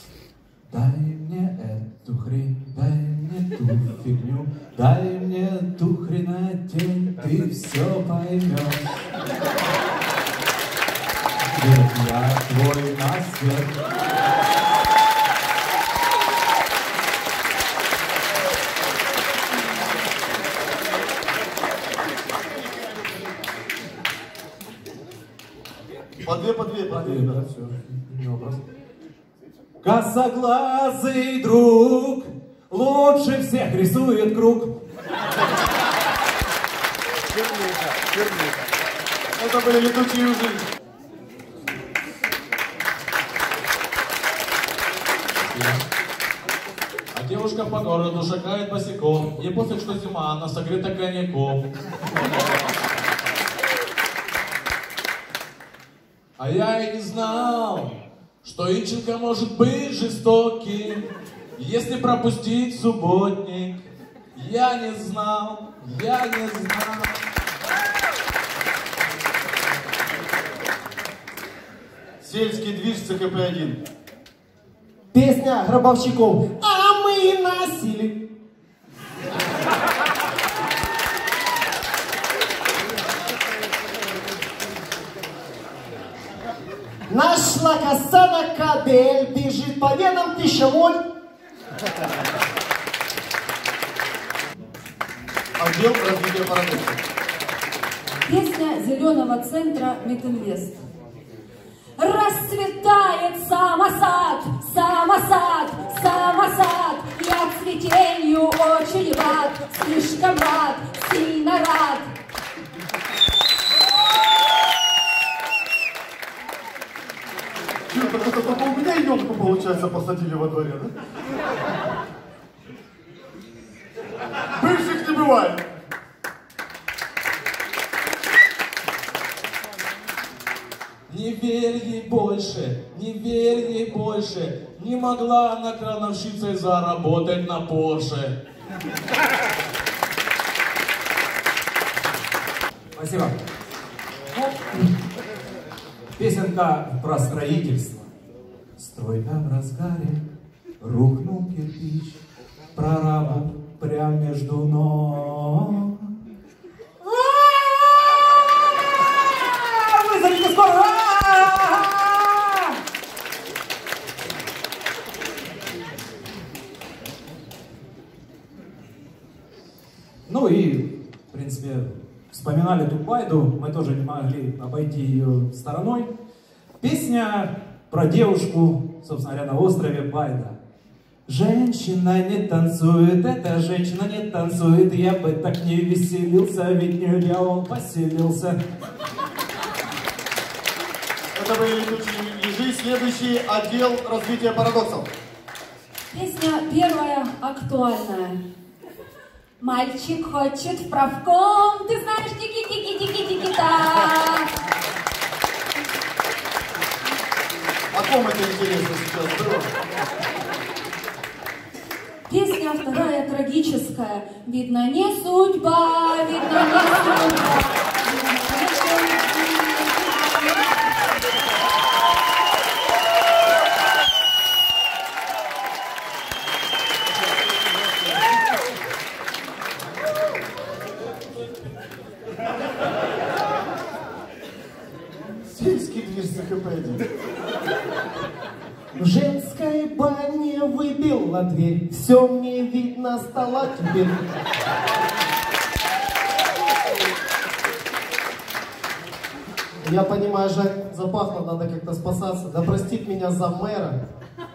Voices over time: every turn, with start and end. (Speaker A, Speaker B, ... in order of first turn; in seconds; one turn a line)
Speaker A: 0.7-8.8
Speaker A: 11.5-13.7
Speaker B: 26.2-27.4
Speaker A: 26.9-28.6
Speaker A: 29.8-34.7
Speaker B: 39.4-40.6
Speaker C: 45.4-45.8
Speaker C: 47.1-51.7
Speaker C: 56.4-61.0
Speaker C: 61.6-63.8
Speaker C: 64.3-67.2
Speaker B: 72.2-73.8
Speaker D: 75.1-78.3
Speaker D: 87.1-91.0
Speaker B: 95.6-97.0
Speaker E: 98.2-100.8
Speaker E: 102.0-112.1
Speaker B: 117.9-120.9
Speaker B: 124.5-125.6
Speaker C: 131.1-138.4
Speaker A: 142.9-143.3
Speaker A: 146.2-148.1
Speaker A: 148.8-150.2
Speaker A: 150.8-152.2
Speaker A: 152.8-156.1
Speaker A: 157.0-158.2
Speaker A: 159.4-162.7
Speaker A: 170.3-176.1
Speaker A: 176.8-180.6
Speaker A: 181.3-188.5
Speaker B: 191.3-195.1
Speaker E: 196.1-198.4
Speaker E: 199.6-204.5
Speaker B: 207.9-209.7
Speaker E: 212.3-220.7
Speaker B: 235.3-237.1
Speaker D: 239.0-244.3
Speaker D: 249.8-254.0